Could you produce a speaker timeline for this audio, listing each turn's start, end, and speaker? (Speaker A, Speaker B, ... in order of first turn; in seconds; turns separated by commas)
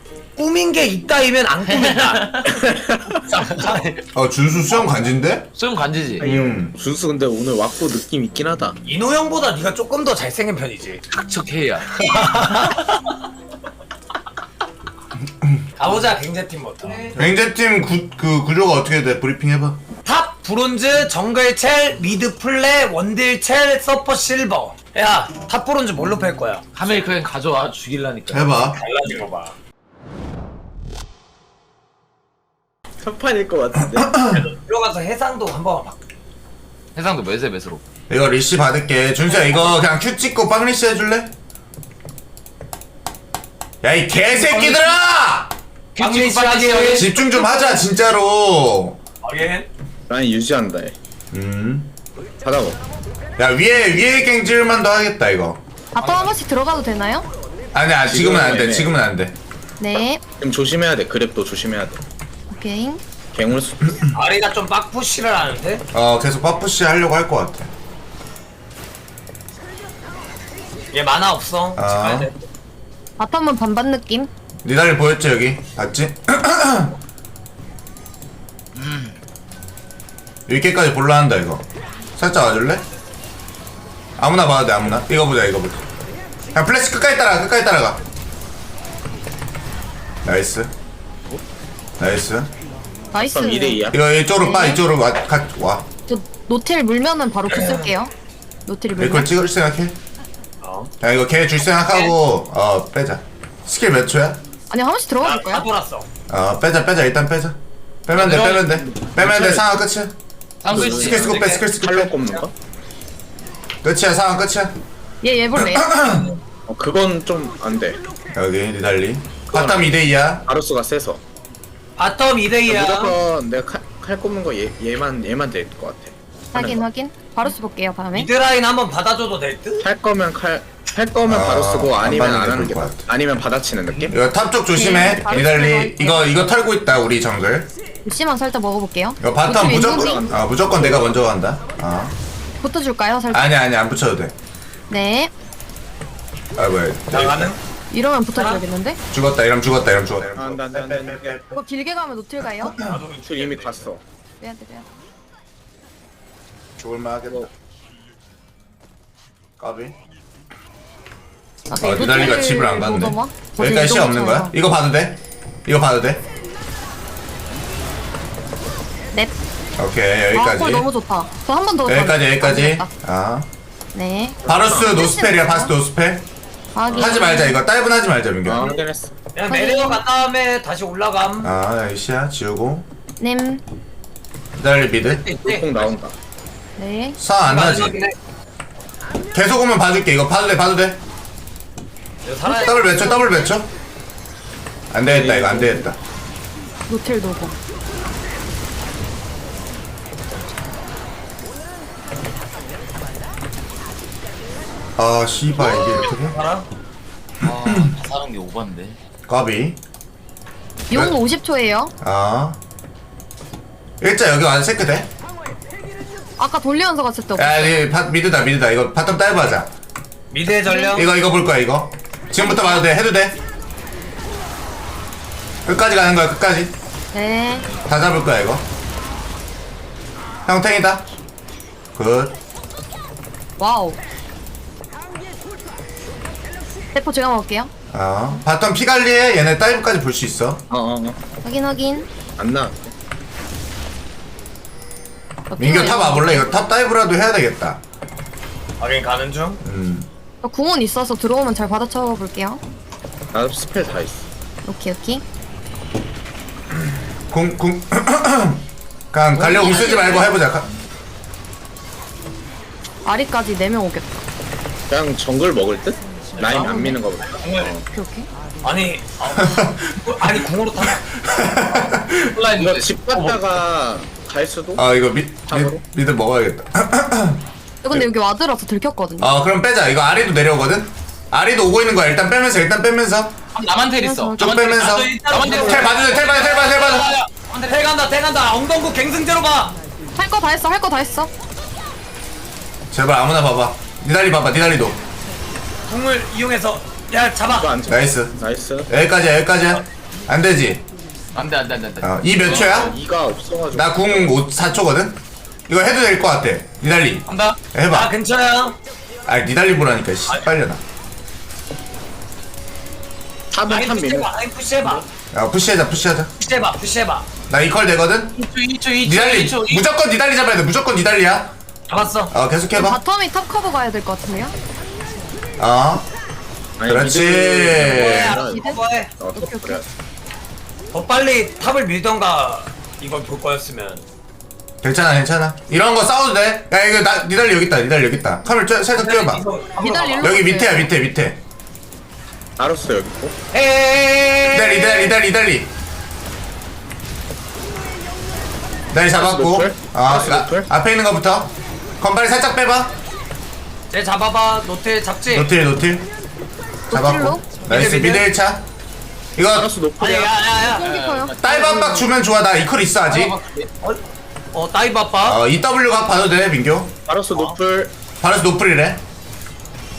Speaker A: 0.4-2.5, Speaker B: 1.7-2.5, Speaker C: 2.4-3.3, Speaker B: 3.3-4.0, Speaker D: 4.1-5.5, Speaker B: 5.5-6.2, Speaker D: 6.2-6.7, Speaker C: 6.2-8.8, Speaker A: 8.8-11.0, Speaker B: 11.1-12.8, Speaker A: 12.0-12.8, Speaker A: 15.8-17.1, Speaker D: 17.1-19.8, Speaker A: 20.0-26.6, Speaker B: 26.7-28.5, Speaker D: 28.3-28.8, Speaker A: 28.7-29.5, Speaker C: 33.0-34.2, Speaker D: 34.0-34.4, Speaker A: 34.3-36.0, Speaker B: 36.9-37.8, Speaker D: 38.1-41.3, Speaker D: 43.8-45.5, Speaker A: 44.4-44.9, Speaker B: 45.9-47.1, Speaker A: 46.0-47.8, Speaker D: 46.9-49.0, Speaker A: 49.2-49.7, Speaker C: 50.1-51.0, Speaker D: 51.3-51.9, Speaker C: 52.4-52.8, Speaker D: 53.4-55.6, Speaker E: 55.9-57.3, Speaker D: 57.7-59.4, Speaker C: 58.0-58.9, Speaker E: 59.8-60.2, Speaker C: 60.4-62.0, Speaker E: 62.5-63.0, Speaker C: 63.3-64.1, Speaker A: 64.1-65.8, Speaker D: 65.9-67.7, Speaker A: 70.9-72.4, Speaker D: 71.8-72.3, Speaker E: 73.2-74.3, Speaker D: 74.6-77.0, Speaker B: 78.8-79.1, Speaker D: 80.5-81.6, Speaker D: 82.2-82.8, Speaker D: 84.2-85.8, Speaker D: 86.5-88.0, Speaker D: 90.2-90.7, Speaker D: 92.0-92.5, Speaker E: 93.1-94.8, Speaker C: 93.1-94.0, Speaker D: 93.9-95.9, Speaker E: 96.1-98.1, Speaker A: 97.5-97.9, Speaker E: 98.7-99.3, Speaker D: 99.0-100.0, Speaker A: 100.6-100.9, Speaker D: 101.0-104.4, Speaker E: 104.7-105.7, Speaker A: 105.2-106.1, Speaker D: 106.3-110.1, Speaker B: 108.1-109.1, Speaker C: 109.2-109.8, Speaker B: 110.6-111.4, Speaker D: 110.7-112.2, Speaker C: 110.7-112.5, Speaker A: 110.7-111.6, Speaker D: 113.8-114.8, Speaker E: 115.2-116.2, Speaker D: 115.5-116.3, Speaker C: 116.7-118.0, Speaker D: 118.3-120.5, Speaker C: 119.5-119.9, Speaker C: 120.5-121.2, Speaker A: 122.0-123.2, Speaker C: 122.7-126.8, Speaker E: 126.5-128.3, Speaker A: 128.1-129.8, Speaker C: 129.8-134.1, Speaker D: 131.2-133.0, Speaker D: 134.1-137.7, Speaker E: 134.7-136.4, Speaker E: 138.0-140.4, Speaker D: 139.2-142.1, Speaker C: 139.7-141.3, Speaker E: 142.6-143.5, Speaker D: 143.3-144.3, Speaker E: 144.9-145.3, Speaker D: 146.6-147.5, Speaker A: 147.1-147.6, Speaker E: 147.9-149.0, Speaker A: 148.3-148.6, Speaker D: 149.1-151.5, Speaker C: 150.3-151.4, Speaker E: 151.5-152.8, Speaker D: 152.6-153.0, Speaker A: 152.8-153.9, Speaker C: 153.2-154.0, Speaker E: 154.4-154.9, Speaker D: 156.8-157.5, Speaker D: 159.6-159.9, Speaker E: 161.7-164.5, Speaker D: 161.8-166.2, Speaker D: 169.8-170.9, Speaker E: 170.3-172.9, Speaker D: 171.8-173.5, Speaker E: 173.9-175.7, Speaker D: 174.4-176.2, Speaker C: 174.5-174.9, Speaker E: 176.7-177.6, Speaker D: 176.9-178.7, Speaker C: 176.9-177.2, Speaker C: 178.4-179.1, Speaker A: 179.3-181.5, Speaker E: 179.5-180.0, Speaker D: 181.4-182.8, Speaker E: 183.2-183.6, Speaker D: 184.6-185.3, Speaker A: 185.2-185.6, Speaker C: 185.4-186.1, Speaker E: 186.8-187.2, Speaker D: 187.2-188.0, Speaker A: 187.4-188.1, Speaker D: 189.3-191.0, Speaker A: 192.2-193.0, Speaker E: 192.4-193.5, Speaker D: 192.6-193.7, Speaker D: 194.9-196.0, Speaker C: 195.1-195.9, Speaker E: 196.9-197.5, Speaker D: 205.0-206.3, Speaker A: 206.2-206.6, Speaker B: 207.4-209.0, Speaker D: 207.6-207.9, Speaker D: 209.3-209.8, Speaker E: 210.9-211.9, Speaker D: 212.0-212.6, Speaker D: 214.0-215.1, Speaker E: 216.4-217.8, Speaker D: 217.3-219.7, Speaker A: 220.3-221.1, Speaker E: 220.5-221.1, Speaker D: 220.9-223.4, Speaker E: 222.4-222.8, Speaker D: 225.7-226.7, Speaker E: 227.1-227.7, Speaker D: 227.9-228.6, Speaker D: 230.4-231.0, Speaker D: 231.9-232.3, Speaker E: 233.6-234.0, Speaker E: 236.9-237.7, Speaker D: 237.9-240.6, Speaker C: 240.7-241.2, Speaker E: 241.4-242.1, Speaker C: 242.4-242.9, Speaker E: 245.5-246.5, Speaker D: 245.6-247.8, Speaker A: 248.8-249.6, Speaker D: 249.6-250.1, Speaker E: 250.4-252.6, Speaker C: 253.3-254.3, Speaker E: 254.7-255.2, Speaker D: 257.3-260.7, Speaker E: 259.4-260.2, Speaker A: 259.4-260.3, Speaker E: 263.0-264.0, Speaker C: 264.9-267.9, Speaker A: 266.4-267.7, Speaker E: 266.5-267.0, Speaker E: 267.9-268.3, Speaker A: 268.6-271.0, Speaker D: 269.3-272.4, Speaker B: 272.2-273.6, Speaker C: 272.6-274.9, Speaker D: 274.8-278.1, Speaker C: 275.5-275.8, Speaker E: 277.8-279.3, Speaker D: 279.2-283.4, Speaker B: 283.5-287.9, Speaker E: 284.0-284.4, Speaker D: 284.4-287.1, Speaker A: 284.6-287.1, Speaker A: 287.6-289.8, Speaker E: 290.1-291.3, Speaker D: 292.9-295.0, Speaker A: 295.9-297.7, Speaker C: 297.5-298.9, Speaker D: 297.9-298.3, Speaker D: 298.9-300.8, Speaker B: 301.3-302.9, Speaker D: 302.0-302.9, Speaker C: 302.5-304.4, Speaker D: 303.7-308.1, Speaker B: 307.3-307.6, Speaker A: 307.9-308.8, Speaker D: 309.2-310.8, Speaker C: 313.5-315.0, Speaker A: 313.7-315.0, Speaker D: 315.3-316.3, Speaker A: 316.4-317.2, Speaker D: 317.5-318.4, Speaker B: 318.4-319.8, Speaker D: 319.0-321.5, Speaker A: 321.9-322.3, Speaker D: 322.3-323.0, Speaker E: 322.7-324.5, Speaker D: 325.6-326.0, Speaker C: 326.8-329.8, Speaker D: 326.8-328.4, Speaker A: 327.8-329.1, Speaker E: 328.2-328.8, Speaker E: 329.3-329.8, Speaker A: 330.9-334.0, Speaker D: 334.8-339.4, Speaker A: 338.9-340.4, Speaker E: 339.7-340.9, Speaker D: 340.2-341.4, Speaker C: 342.6-343.4, Speaker A: 343.5-345.1, Speaker D: 344.5-345.7, Speaker D: 348.9-352.9, Speaker C: 349.1-350.7, Speaker A: 353.9-355.5, Speaker D: 355.3-356.1, Speaker E: 356.9-357.5, Speaker D: 356.9-358.6, Speaker A: 357.6-358.2, Speaker D: 359.4-359.7, Speaker C: 359.5-360.4, Speaker A: 360.0-360.9, Speaker E: 360.5-362.1, Speaker B: 360.8-361.4, Speaker D: 361.4-363.3, Speaker B: 363.1-363.7, Speaker A: 364.5-365.4, Speaker D: 365.2-366.9, Speaker C: 367.1-367.9, Speaker D: 368.2-369.0